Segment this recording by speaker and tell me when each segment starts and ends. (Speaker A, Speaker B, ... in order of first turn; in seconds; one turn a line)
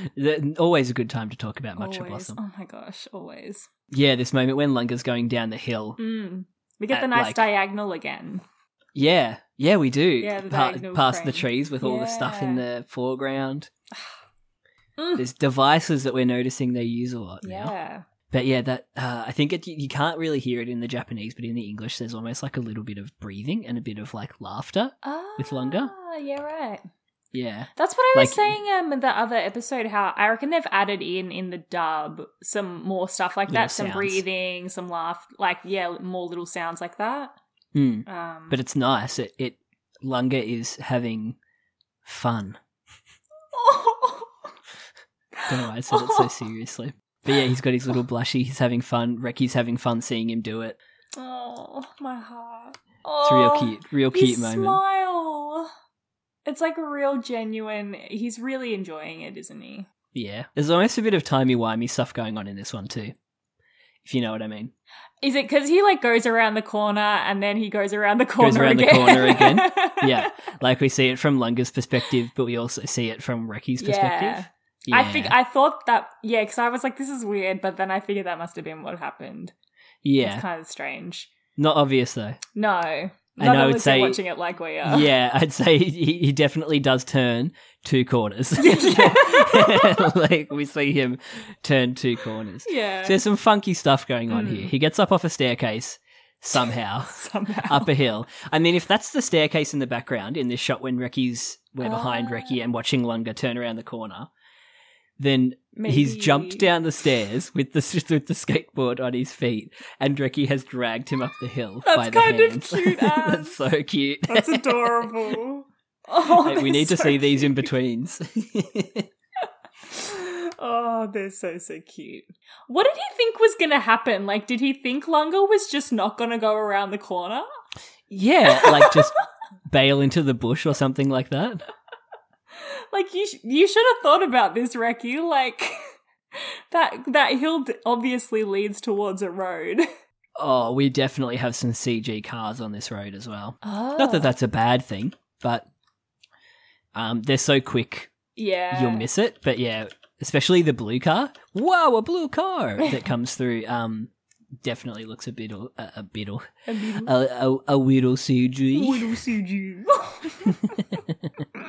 Speaker A: 0.1-2.4
Speaker B: 1.8-3.7
Speaker A: 3.9-6.0
Speaker B: 6.0-8.4
Speaker A: 6.9-7.5
Speaker A: 8.9-13.7
Speaker B: 10.2-12.6
Speaker B: 15.0-15.2
Speaker A: 15.2-17.7
Speaker B: 17.4-18.0
Speaker A: 18.3-25.9
Speaker B: 25.0-26.9
Speaker A: 27.3-28.5
Speaker B: 27.8-37.3
Speaker A: 33.5-34.2
Speaker A: 37.7-41.4
Speaker B: 38.0-38.6
Speaker A: 42.0-42.6
Speaker B: 43.5-44.3
Speaker B: 45.4-46.3
Speaker A: 45.5-50.8
Speaker B: 51.1-55.7
Speaker A: 53.2-54.8
Speaker B: 56.5-59.9
Speaker A: 60.1-63.1
Speaker A: 64.0-64.7
Speaker B: 65.2-70.3
Speaker A: 68.4-75.3
Speaker B: 73.8-79.5
Speaker A: 80.0-80.4
Speaker B: 80.2-81.3
Speaker A: 81.6-82.4
Speaker B: 82.5-85.1
Speaker A: 83.4-84.2
Speaker A: 84.8-104.3
Speaker B: 88.6-90.0
Speaker B: 92.7-93.2
Speaker B: 94.3-94.7
Speaker B: 96.5-97.9
Speaker B: 101.8-102.5
Speaker A: 105.2-115.1
Speaker B: 105.7-106.6
Speaker B: 111.8-113.6
Speaker B: 114.3-117.7
Speaker A: 116.3-119.1
Speaker B: 119.9-127.5
Speaker A: 128.1-129.2
Speaker B: 128.5-129.1
Speaker A: 129.7-131.6
Speaker B: 132.6-135.8
Speaker B: 136.3-139.9
Speaker A: 140.3-145.7
Speaker B: 143.6-144.3
Speaker A: 146.9-148.1
Speaker B: 148.3-149.0
Speaker A: 148.7-154.1
Speaker A: 154.6-156.4
Speaker B: 156.7-157.1
Speaker A: 157.0-159.2
Speaker B: 158.7-160.8